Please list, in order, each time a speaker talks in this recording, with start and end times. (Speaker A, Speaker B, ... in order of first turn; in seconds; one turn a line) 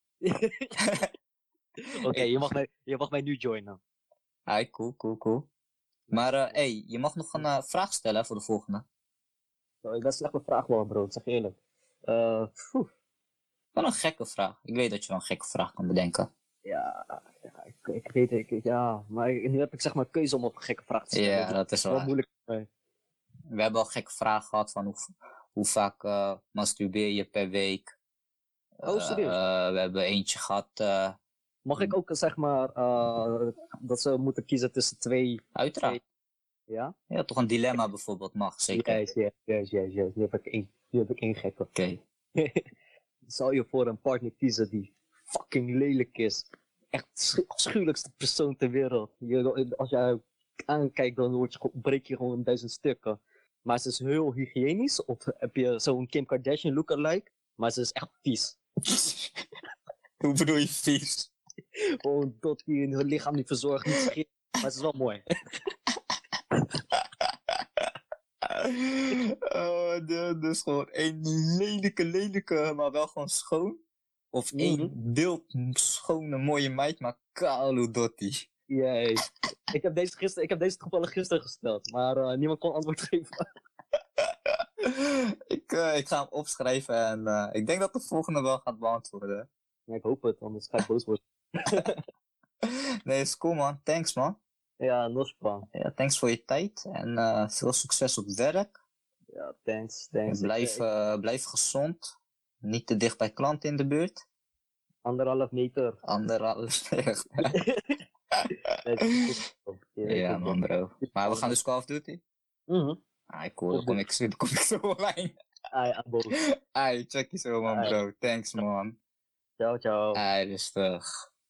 Speaker A: 0.2-0.7
Speaker A: 2.0-3.8
Speaker B: 4.5-5.5
Speaker A: 6.1-6.6
Speaker B: 6.1-8.8
Speaker A: 9.8-12.9
Speaker B: 13.7-16.3
Speaker A: 16.6-22.7
Speaker B: 21.1-22.1
Speaker B: 23.5-27.9
Speaker B: 28.8-31.2
Speaker A: 28.8-29.4
Speaker A: 31.6-36.0
Speaker B: 35.5-36.0
Speaker A: 36.7-36.9
Speaker B: 37.1-39.0
Speaker A: 38.7-41.7
Speaker B: 41.7-42.0
Speaker A: 42.4-42.6
Speaker A: 43.2-58.6
Speaker B: 60.2-61.3
Speaker A: 62.0-65.2
Speaker B: 68.5-73.8
Speaker B: 74.3-78.5
Speaker A: 74.5-74.9
Speaker A: 78.7-83.4
Speaker B: 84.8-89.5
Speaker A: 89.9-92.0
Speaker B: 92.6-94.4
Speaker A: 94.8-95.6
Speaker B: 95.7-98.7
Speaker A: 99.3-100.8
Speaker B: 100.3-104.2
Speaker A: 105.0-106.0
Speaker B: 106.0-107.5
Speaker A: 107.5-107.9
Speaker A: 108.8-111.5
Speaker B: 110.0-112.2
Speaker A: 112.7-113.0
Speaker B: 113.3-115.3
Speaker A: 113.7-114.0
Speaker A: 115.7-116.3
Speaker B: 116.3-119.0
Speaker A: 117.7-117.9
Speaker A: 119.6-120.2
Speaker B: 120.1-121.0